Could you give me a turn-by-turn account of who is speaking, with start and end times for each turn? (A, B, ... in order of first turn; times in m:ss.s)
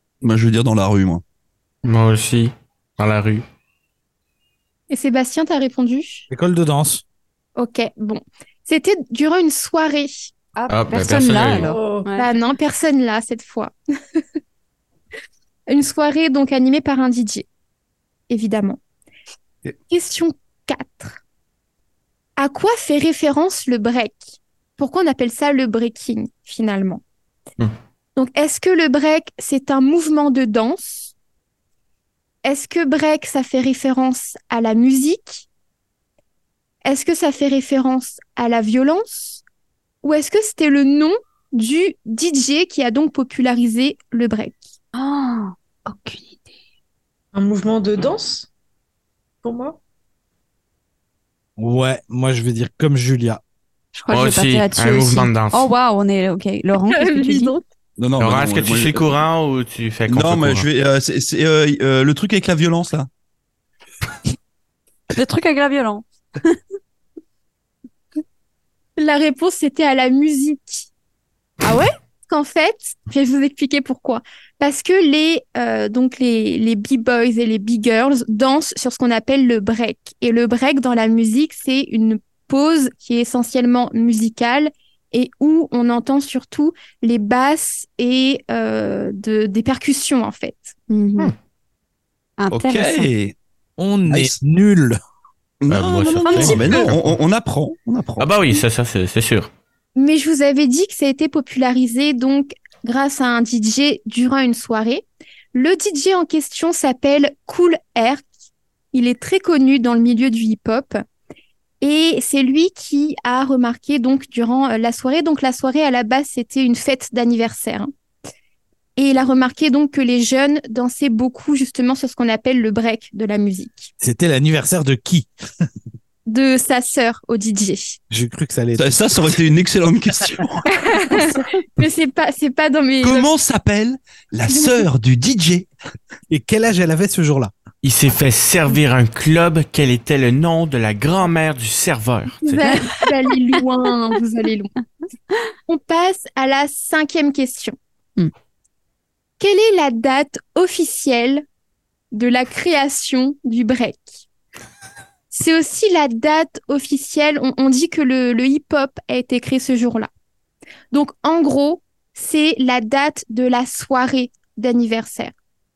0:00.2-0:01.2 A
0:01.8-0:03.4 B
0:04.9-0:06.3 C
0:06.3-0:07.0 D
0:07.6-0:10.3 C
0:10.6-0:12.2 E
0:10.7-0:11.7 B
0:11.6-0:12.1 F
0:12.2-0:13.7 C
0:15.7-0:17.4 C
0:18.3-0:18.8 C
0:19.9-0:21.2 C
0:22.4-0:27.0 C
0:28.2-0:31.1 C
0:32.4-0:35.4 C
0:36.8-0:39.4 C
0:40.0-0:44.7 C
0:44.9-0:46.4 E
0:47.3-0:48.5 F
0:49.4-0:49.8 F
0:51.6-0:53.4 D
0:53.9-0:57.5 E
0:54.1-0:55.7 B
0:56.9-0:57.6 C
0:58.0-0:59.2 A
0:58.2-1:00.6 B
1:00.1-1:03.1 A
1:05.1-1:06.6 E
1:09.0-1:10.9 C
1:11.6-1:11.9 E
1:12.3-1:30.7 C
1:30.9-1:31.3 E
1:32.4-1:33.1 E
1:32.5-1:33.4 A
1:33.8-1:35.0 D
1:34.1-1:34.4 A
1:35.6-1:38.6 A
1:35.7-1:37.2 B
1:36.3-1:36.9 F
1:38.2-1:39.5 B
1:40.0-1:48.2 C
1:48.9-1:51.0 C
1:51.8-1:57.9 C
1:59.0-2:03.9 C
2:04.0-2:05.3 D
2:06.3-2:08.0 C
2:08.1-2:09.0 D
2:08.8-2:10.6 A
2:10.7-2:13.3 C
2:13.0-2:15.7 A
2:14.5-2:14.8 C
2:16.3-2:17.5 D
2:17.8-2:22.7 B
2:22.4-2:24.7 C
2:22.6-2:23.1 E
2:25.7-2:27.8 C
2:29.4-2:31.4 C
2:32.1-2:34.2 C
2:35.3-2:40.1 C
2:40.9-2:45.3 C